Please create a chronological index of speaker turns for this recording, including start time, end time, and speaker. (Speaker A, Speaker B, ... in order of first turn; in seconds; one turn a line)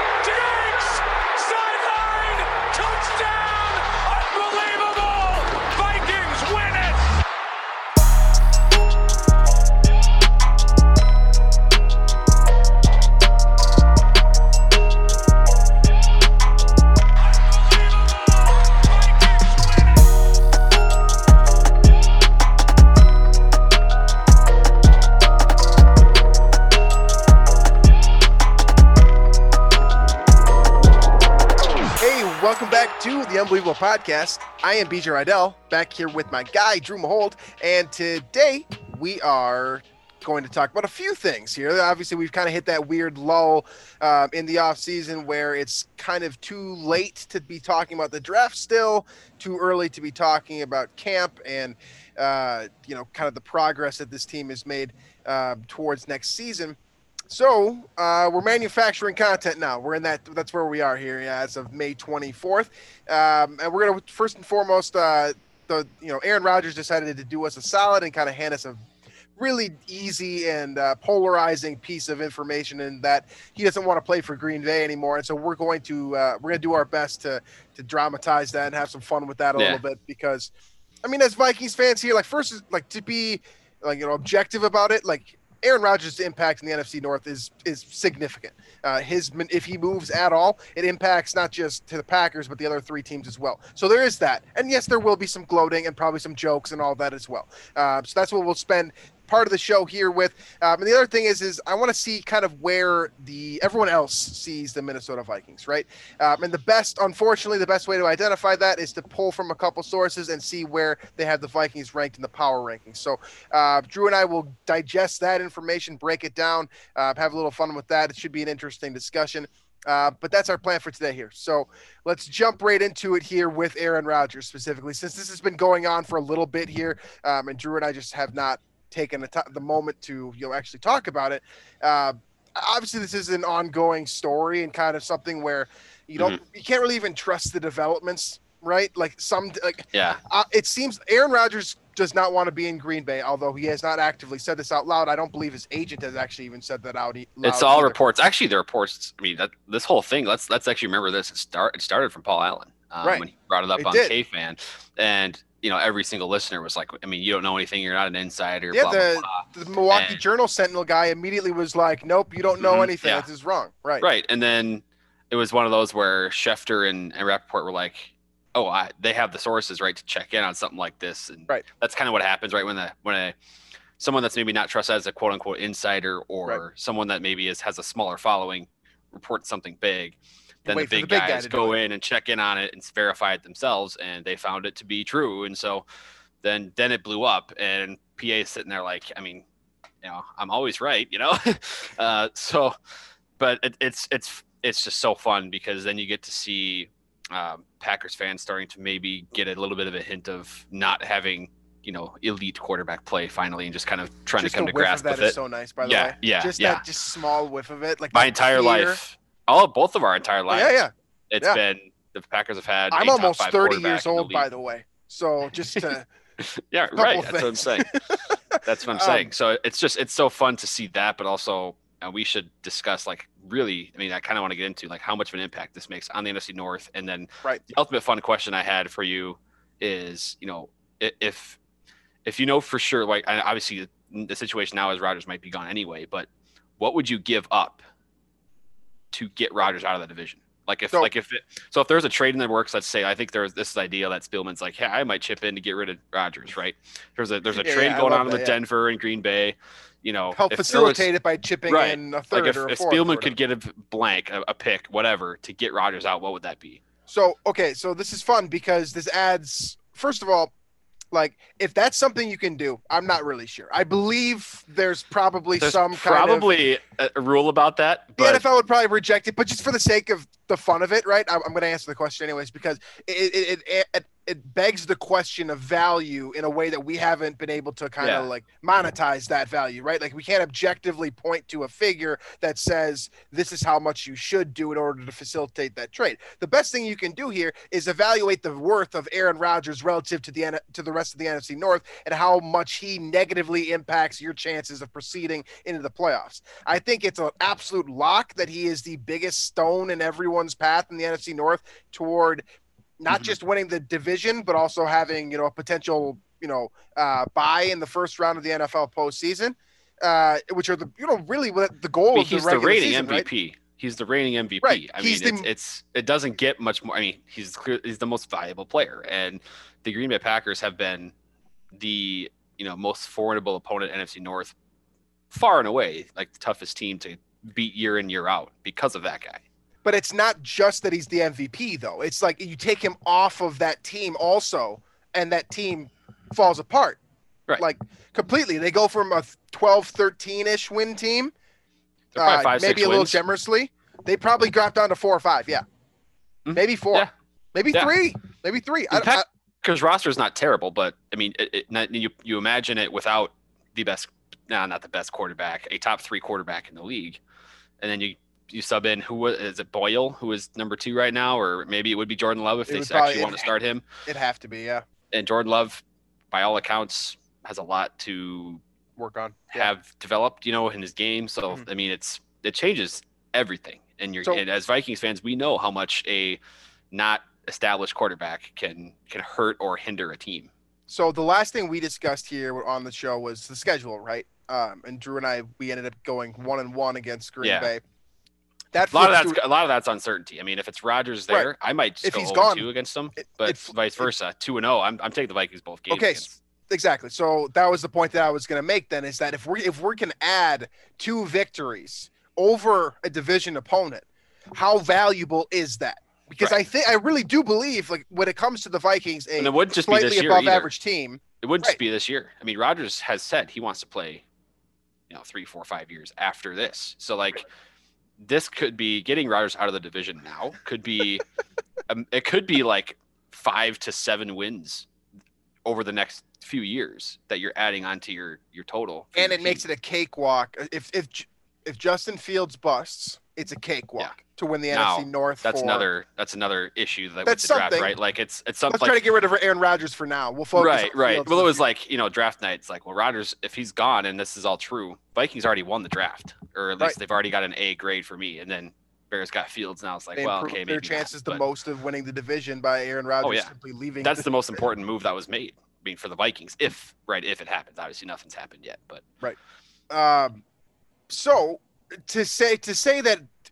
Speaker A: 0.2-7.2
Speaker A: 17.4-19.6
Speaker B: 32.0-56.8
Speaker B: 57.3-68.8
Speaker B: 69.4-80.5
Speaker C: 79.6-79.8
Speaker B: 81.0-148.0
Speaker C: 139.9-140.2
Speaker C: 147.4-160.2
Speaker B: 153.0-154.2
Speaker B: 158.7-164.1
Speaker C: 162.6-163.3
Speaker C: 164.0-173.3
Speaker C: 174.0-185.8
Speaker B: 180.7-181.8
Speaker C: 186.4-189.4
Speaker C: 190.0-192.8
Speaker C: 193.4-206.8
Speaker B: 204.4-209.0
Speaker C: 208.1-210.8
Speaker B: 210.5-211.6
Speaker C: 211.3-214.5
Speaker B: 212.9-216.1
Speaker C: 216.4-217.9
Speaker B: 216.9-219.3
Speaker C: 218.6-231.6
Speaker C: 232.2-237.8
Speaker C: 239.1-251.1
Speaker B: 247.6-248.6
Speaker B: 250.3-253.3
Speaker C: 251.7-256.8
Speaker B: 257.1-260.5
Speaker B: 261.1-266.5
Speaker C: 265.6-268.4
Speaker B: 268.2-302.4
Speaker C: 278.0-278.3
Speaker B: 303.0-313.3
Speaker C: 312.1-321.1
Speaker B: 314.6-315.5
Speaker C: 321.7-324.6
Speaker C: 325.3-329.4
Speaker B: 329.9-337.0
Speaker B: 337.6-341.3
Speaker C: 342.1-343.2
Speaker B: 342.2-345.6
Speaker C: 346.5-347.1
Speaker B: 346.5-349.2
Speaker C: 348.9-357.2
Speaker C: 357.8-363.8
Speaker B: 362.7-364.9
Speaker C: 365.1-368.6
Speaker B: 369.0-369.7
Speaker C: 369.5-376.4
Speaker C: 376.9-380.5
Speaker B: 380.9-387.8
Speaker C: 387.4-387.7
Speaker B: 388.7-389.4
Speaker C: 388.9-396.4
Speaker B: 392.0-394.1
Speaker B: 395.9-411.8
Speaker C: 409.4-410.7
Speaker C: 411.4-414.2
Speaker C: 415.1-417.5
Speaker C: 418.2-421.3
Speaker C: 421.9-424.9
Speaker C: 425.6-429.6
Speaker B: 429.1-435.9
Speaker C: 434.7-439.0
Speaker B: 437.2-437.9
Speaker B: 438.7-441.6
Speaker C: 440.5-451.4
Speaker B: 450.2-454.3
Speaker C: 453.2-453.5
Speaker C: 454.0-459.0
Speaker B: 459.9-460.4
Speaker B: 461.1-463.3